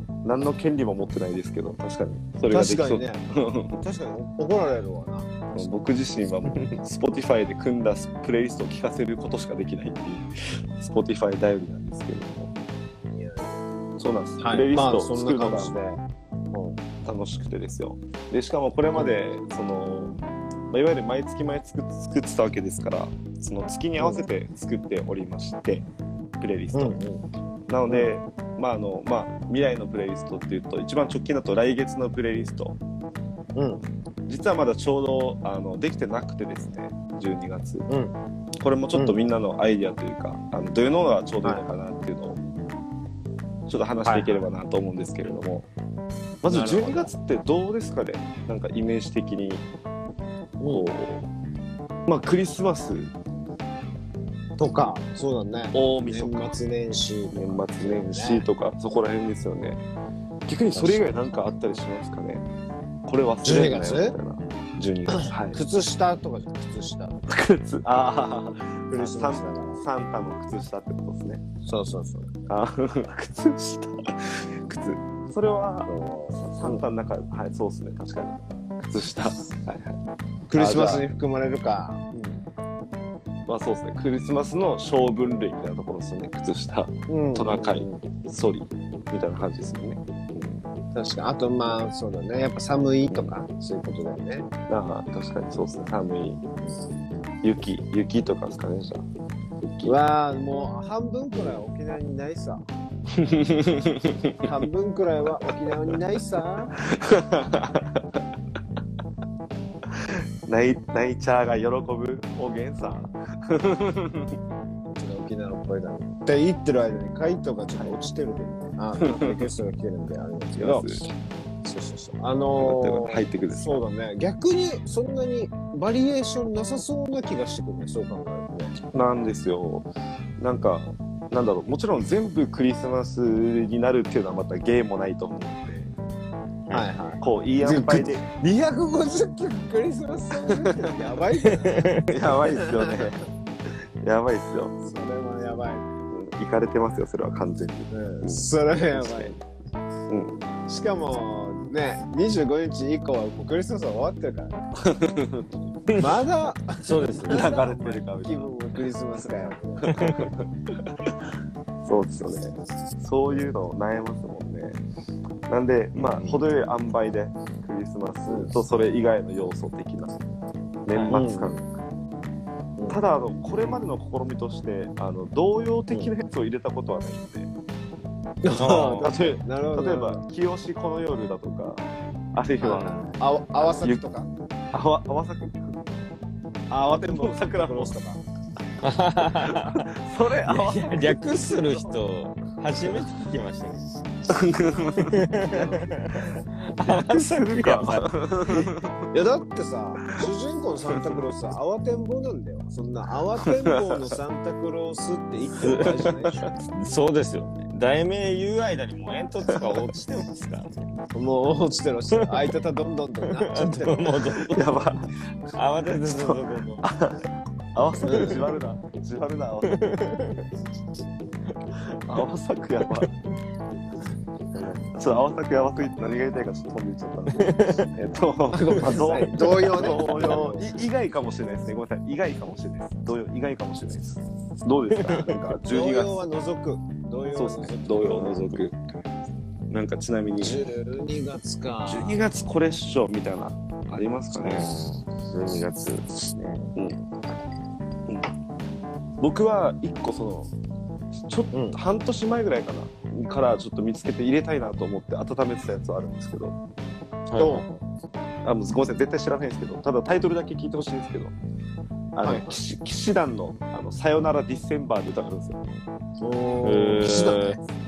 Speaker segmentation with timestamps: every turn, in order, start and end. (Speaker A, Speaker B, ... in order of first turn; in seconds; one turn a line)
Speaker A: 0.2-3.8
Speaker B: 2.5-5.7
Speaker A: 5.5-12.5
Speaker B: 13.1-13.6
Speaker A: 14.0-15.8
Speaker B: 14.4-16.9
Speaker A: 17.0-20.2
Speaker A: 20.7-25.9
Speaker B: 24.0-24.3
Speaker A: 26.4-27.0
Speaker B: 26.7-27.2
Speaker A: 27.7-32.8
Speaker B: 33.5-33.8
Speaker A: 34.3-37.9
Speaker B: 37.9-38.2
Speaker A: 38.6-42.4
Speaker B: 38.9-39.2
Speaker B: 41.4-41.7
Speaker A: 43.7-45.7
Speaker B: 44.0-44.5
Speaker A: 46.4-49.6
Speaker B: 46.5-47.1
Speaker B: 50.6-50.9
Speaker A: 50.6-51.3
Speaker A: 52.1-53.1
Speaker B: 54.6-58.5
Speaker A: 55.7-56.6
Speaker A: 57.3-59.8
Speaker A: 60.5-62.5
Speaker B: 60.7-61.1
Speaker A: 63.1-65.6
Speaker B: 63.4-64.2
Speaker B: 65.2-67.2
Speaker A: 67.3-71.4
Speaker B: 68.9-69.8
Speaker B: 71.7-72.3
Speaker A: 72.5-80.0
Speaker B: 75.9-76.8
Speaker B: 80.5-82.4
Speaker A: 80.5-81.1
Speaker A: 83.5-90.6
Speaker B: 87.1-88.0
Speaker B: 90.9-94.5
Speaker A: 93.1-93.4
Speaker A: 94.7-96.4
Speaker A: 97.4-99.0
Speaker A: 99.7-100.0
Speaker B: 99.8-102.6
Speaker A: 103.1-104.5
Speaker B: 104.4-106.8
Speaker A: 106.9-108.0
Speaker A: 110.1-114.3
Speaker B: 114.9-121.1
Speaker A: 119.0-119.5
Speaker A: 120.5-121.1
Speaker B: 121.6-128.8
Speaker A: 122.6-123.8
Speaker A: 128.9-135.9
Speaker B: 136.7-143.1
Speaker A: 137.2-138.3
Speaker A: 140.5-140.9
Speaker C: 141.8-142.2
Speaker A: 142.1-143.2
Speaker A: 144.0-144.7
Speaker B: 144.8-145.9
Speaker A: 146.1-149.4
Speaker B: 147.9-149.4
Speaker A: 150.1-150.4
Speaker B: 150.7-154.6
Speaker A: 154.8-155.7
Speaker B: 156.0-159.9
Speaker C: 156.8-157.5
Speaker A: 157.2-158.5
Speaker A: 159.2-160.5
Speaker C: 159.9-160.3
Speaker A: 161.8-164.8
Speaker A: 165.5-170.2
Speaker C: 165.9-166.4
Speaker B: 168.3-168.6
Speaker A: 170.9-171.6
Speaker C: 170.9-171.2
Speaker B: 171.1-171.6
Speaker A: 172.9-177.5
Speaker B: 178.4-180.2
Speaker C: 178.6-179.1
Speaker A: 178.6-184.0
Speaker B: 182.6-184.3
Speaker C: 182.7-183.2
Speaker A: 184.7-185.8
Speaker B: 186.7-188.2
Speaker A: 186.8-188.0
Speaker C: 188.8-189.9
Speaker A: 189.4-191.9
Speaker C: 190.5-193.9
Speaker A: 194.3-195.8
Speaker C: 195.1-198.7
Speaker A: 196.8-199.0
Speaker B: 199.1-206.4
Speaker A: 200.9-201.2
Speaker A: 203.4-204.2
Speaker C: 205.6-210.9
Speaker A: 205.6-206.5
Speaker A: 209.5-209.8
Speaker B: 211.1-214.2
Speaker C: 212.1-212.6
Speaker C: 213.3-214.9
Speaker A: 214.5-215.1
Speaker C: 215.5-216.9
Speaker A: 215.9-219.8
Speaker C: 218.0-218.4
Speaker B: 218.1-218.3
Speaker C: 219.6-220.5
Speaker A: 222.1-223.1
Speaker C: 224.5-224.9
Speaker A: 224.9-236.2
Speaker C: 227.4-227.9
Speaker B: 228.6-230.7
Speaker C: 228.8-230.0
Speaker C: 235.0-235.4
Speaker B: 235.6-238.4
Speaker A: 237.3-238.8
Speaker C: 238.0-238.6
Speaker A: 239.7-240.6
Speaker B: 240.4-242.2
Speaker A: 241.9-244.8
Speaker C: 244.4-246.7
Speaker A: 248.1-248.3
Speaker A: 249.2-250.5
Speaker A: 251.2-256.6
Speaker B: 251.5-251.8
Speaker C: 257.3-257.7
Speaker B: 257.4-257.8
Speaker A: 258.4-261.3
Speaker A: 262.1-265.6
Speaker B: 262.2-262.6
Speaker B: 266.2-267.6
Speaker C: 266.6-267.6